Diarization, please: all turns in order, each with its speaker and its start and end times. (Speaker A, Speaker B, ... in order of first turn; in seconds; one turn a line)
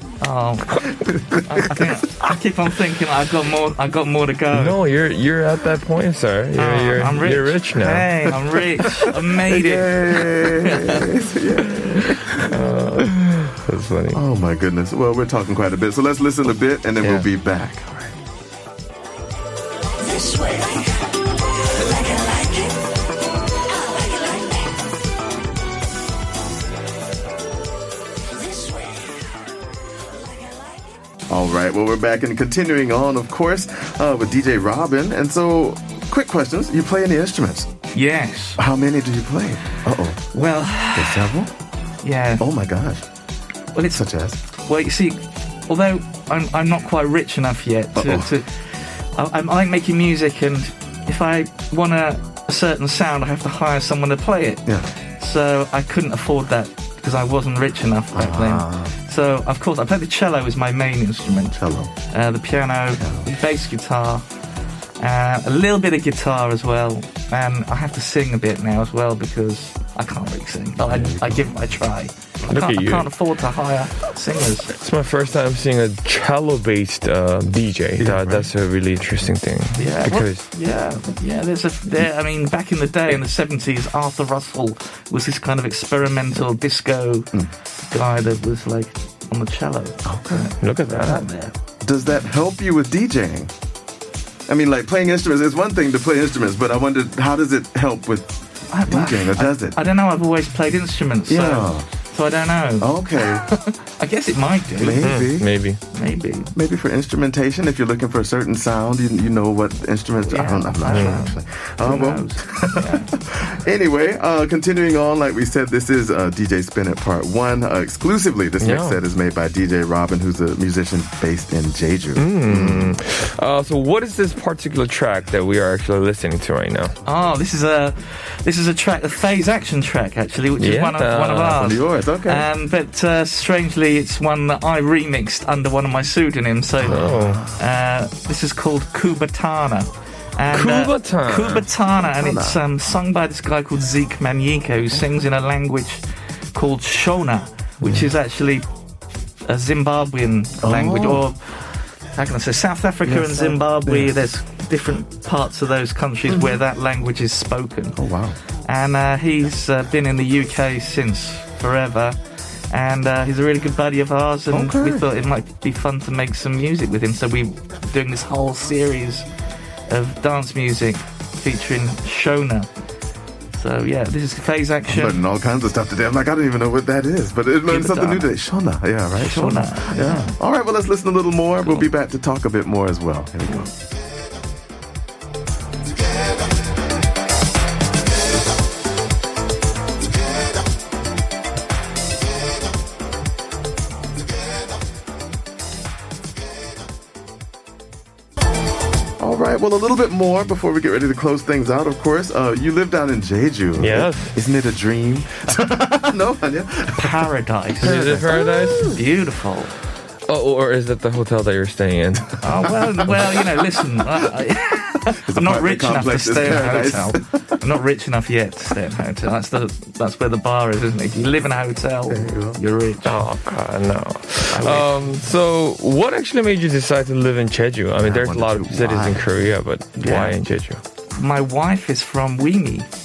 Speaker A: 0.2-4.8
Speaker B: 1.0-2.2
Speaker C: 4.5-8.1
Speaker A: 6.5-11.1
Speaker B: 9.1-12.4
Speaker C: 12.3-14.2
Speaker B: 14.1-18.1
Speaker B: 31.3-37.7
Speaker A: 37.9-38.6
Speaker B: 38.6-40.3
Speaker A: 40.3-41.3
Speaker B: 40.9-41.5
Speaker A: 42.0-42.4
Speaker B: 42.4-43.0
Speaker A: 43.7-44.0
Speaker B: 43.9-44.4
Speaker A: 44.5-64.2
Speaker B: 47.9-48.3
Speaker B: 58.1-58.9
Speaker B: 61.6-61.9
Speaker B: 63.0-63.3
Speaker A: 65.0-74.7
Speaker B: 70.8-71.5
Speaker C: 72.5-73.1
Speaker C: 74.7-80.5
Speaker B: 78.0-78.5
Speaker A: 79.8-87.3
Speaker A: 87.9-91.5
Speaker B: 90.0-90.5
Speaker C: 90.6-91.3
Speaker B: 91.8-93.5
Speaker B: 94.5-99.8
Speaker A: 98.7-105.2
Speaker B: 101.3-101.9
Speaker B: 102.8-103.5
Speaker B: 104.8-105.5
Speaker C: 105.0-105.8
Speaker A: 105.9-106.5
Speaker B: 106.5-123.0
Speaker A: 110.3-113.1
Speaker C: 110.8-111.2
Speaker C: 118.6-119.0
Speaker C: 122.2-127.0
Speaker A: 127.0-146.0
Speaker C: 130.6-131.6
Speaker B: 131.6-132.5
Speaker C: 136.8-137.4
Speaker B: 136.8-137.4
Speaker C: 140.5-141.7
Speaker B: 142.2-142.6
Speaker A: 146.5-148.7
Speaker A: 149.4-158.0
Speaker B: 150.6-151.2
Speaker B: 153.0-154.2
Speaker B: 156.3-156.6
Speaker B: 157.9-158.4
Speaker A: 158.6-162.2
Speaker A: 162.7-169.3
Speaker B: 164.5-165.1
Speaker A: 169.9-172.7
Speaker A: 173.5-175.2
Speaker B: 174.9-183.7
Speaker A: 177.7-178.3
Speaker A: 179.2-180.3
Speaker B: 199.2-207.2
Speaker C: 203.8-204.3
Speaker A: 207.0-209.7
Speaker C: 207.8-208.9
Speaker B: 207.8-209.0
Speaker C: 210.3-212.4
Speaker A: 212.4-223.2
Speaker B: 213.1-213.4
Speaker B: 215.1-217.3
Speaker B: 222.1-222.6
Speaker C: 223.0-230.8
Speaker A: 224.5-225.2
Speaker B: 228.0-229.3
Speaker A: 230.0-230.4
Speaker A: 231.1-232.9